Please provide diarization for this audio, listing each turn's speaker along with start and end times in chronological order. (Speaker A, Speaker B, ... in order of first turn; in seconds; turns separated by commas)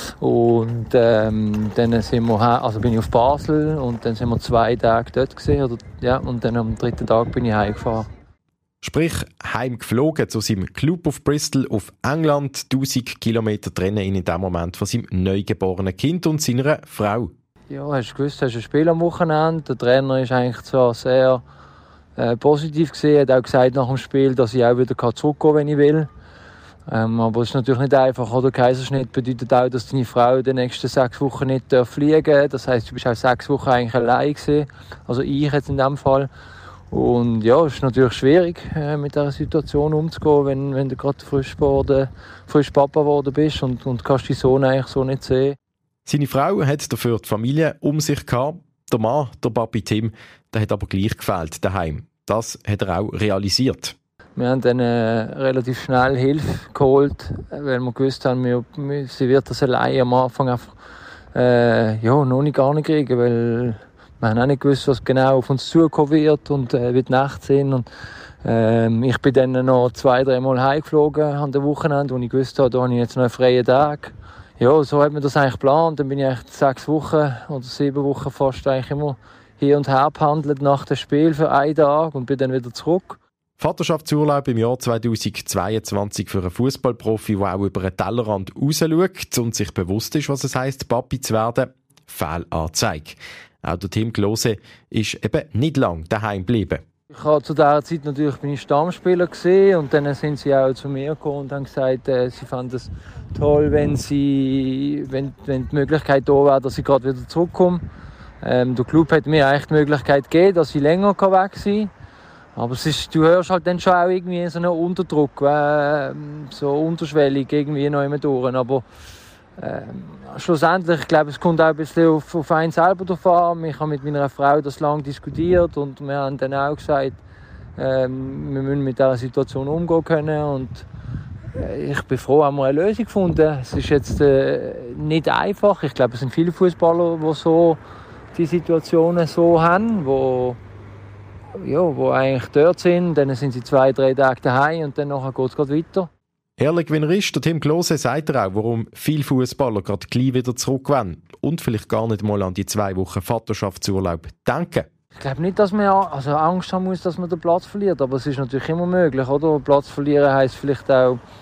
Speaker A: 0.2-8.1, Speaker B: 8.8-17.3, Speaker A: 17.7-21.4, Speaker A: 22.2-26.1, Speaker A: 26.9-36.3, Speaker A: 36.9-45.5, Speaker B: 46.0-53.9, Speaker A: 54.4-60.7, Speaker A: 61.3-67.8, Speaker A: 68.4-83.2, Speaker B: 83.6-96.8, Speaker A: 97.1-107.8, Speaker A: 108.4-111.9, Speaker A: 112.5-118.8, Speaker A: 119.6-127.2, Speaker A: 127.8-130.8, Speaker A: 131.6-137.8, Speaker A: 138.3-140.6, Speaker A: 141.6-146.1, Speaker B: 146.6-154.9, Speaker A: 155.2-161.2